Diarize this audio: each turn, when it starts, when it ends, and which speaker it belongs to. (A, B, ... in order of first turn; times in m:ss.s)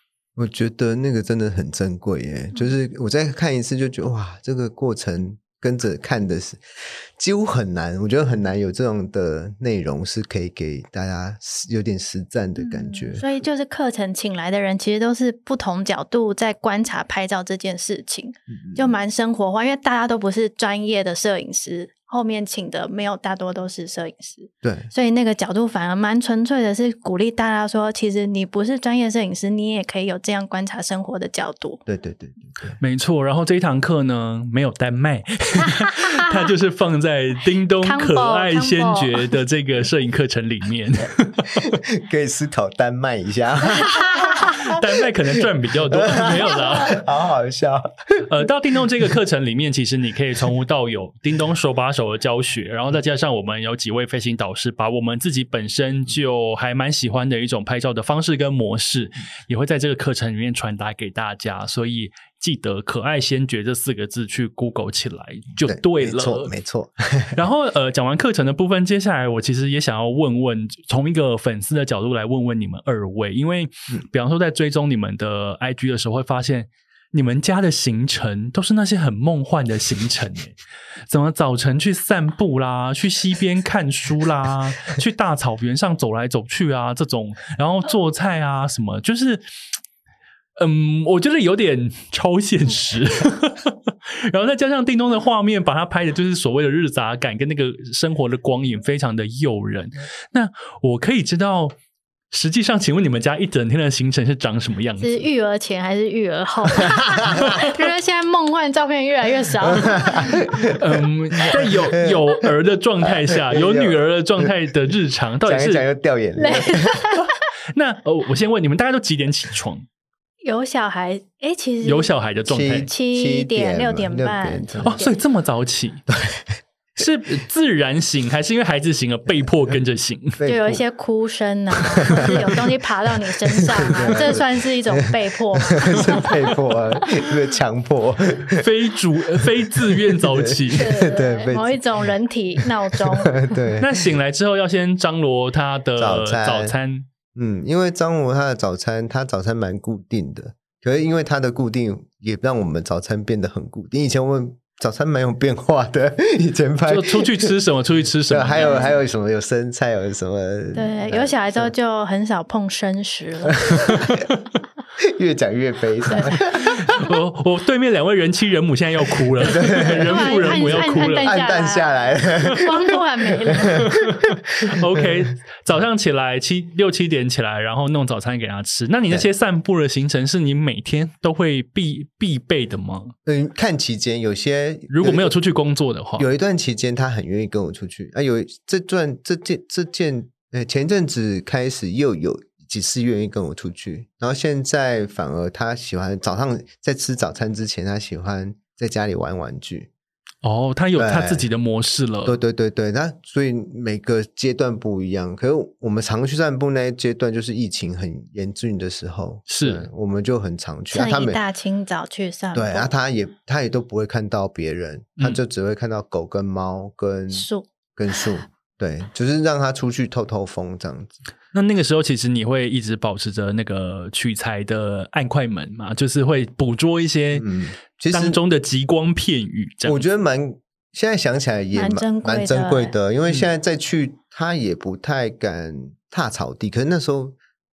0:00.4-0:13.3 A
0:12.6-0:31.8 B
0:18.5-0:18.9 A
0:24.6-0:24.9 A
0:31.9-0:32.8 A
0:32.8-0:41.7 C
0:36.0-0:36.4 B
0:37.8-0:39.4 B
0:41.6-0:45.1 A
0:43.8-0:44.5 B
0:44.5-0:47.0 C
0:45.9-0:47.9 A
0:48.3-1:06.5 C
1:05.6-1:07.4 A
1:07.3-1:20.6 C
1:21.1-1:29.4 C
1:30.6-1:41.8 C
1:42.3-1:45.2 C
1:45.0-1:50.4 B
1:47.3-1:47.6 A
1:47.3-1:47.7 C
1:49.7-1:50.8 A
1:50.7-1:55.8 C
1:51.5-1:52.5 A
1:53.1-1:54.5 A
1:55.4-1:57.1 A
1:56.4-1:57.3 B
1:57.7-1:59.8 C
2:00.4-2:02.1 B
2:01.8-2:02.9 C
2:02.5-2:05.0 A
2:02.8-2:05.1 B
2:04.8-2:06.0 C
2:06.1-2:06.5 A
2:07.0-2:10.4 C
2:10.4-2:10.8 A
2:10.4-2:16.4 B
2:11.9-2:12.7 A
2:13.3-2:18.6 A
2:18.6-2:21.0 C
2:19.3-2:23.9 A
2:20.7-2:23.5 B
2:23.8-2:27.1 C
2:26.0-2:26.8 A
2:27.4-2:37.5 A
2:36.9-2:38.8 C
2:38.3-2:41.7 A
2:38.6-2:39.0 B
2:40.8-2:44.0 B
2:43.5-2:44.2 A
2:43.9-2:44.2 C
2:45.0-2:47.0 A
2:46.1-2:46.4 B
2:46.5-2:51.4 C
2:49.4-2:55.2 A
2:49.8-2:53.9 B
2:53.8-3:03.2 C
3:03.3-3:05.3 A
3:04.9-3:06.3 C
3:06.2-3:19.9 A
3:20.4-3:22.4 C
3:21.0-3:21.5 A
3:22.2-3:31.4 A
3:29.5-3:29.9 C
3:30.9-3:32.9 B
3:32.5-3:41.2 A
3:37.3-3:37.7 B
3:41.5-3:47.5 C
3:47.4-3:48.4 A
3:48.1-3:50.0 C
3:49.8-3:57.4 A
3:51.7-3:53.0 B